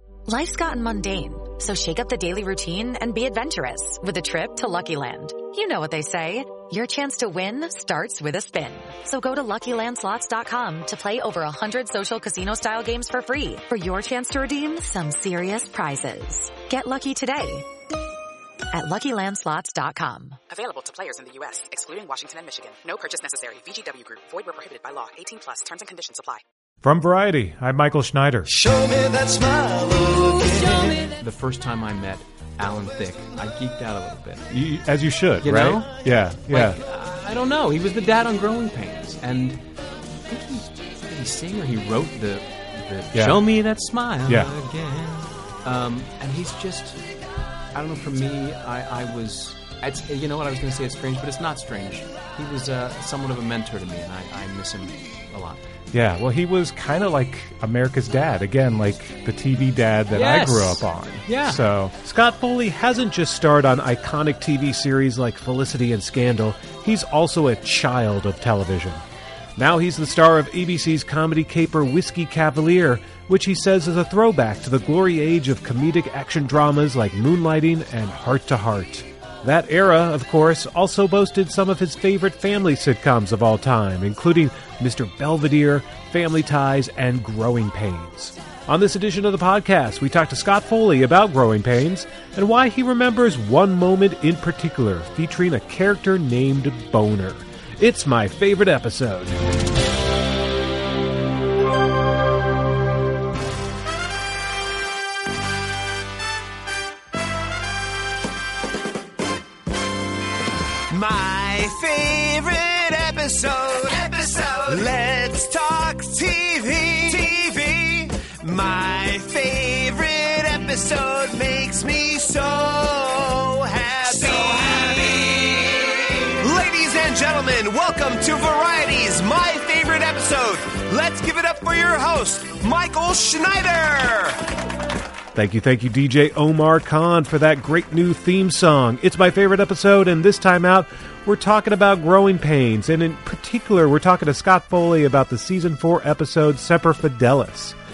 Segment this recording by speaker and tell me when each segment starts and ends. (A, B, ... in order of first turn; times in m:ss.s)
0:00.3-0:17.7 A
0:18.7-0:20.4 A
0:20.5-0:26.4 B
0:26.8-0:28.5 C
0:28.5-0:31.1 D
0:31.2-0:34.5 E
0:34.5-0:36.8 C
0:35.4-0:39.6 E
0:40.2-0:47.0 E
0:43.1-0:43.4 C
0:44.2-0:44.5 C
0:47.7-0:55.6 E
0:55.9-1:02.0 C
1:00.1-1:01.6 E
1:02.0-1:09.0 F
1:09.6-1:39.4 F
1:50.9-2:14.4 D
2:15.3-2:27.8 F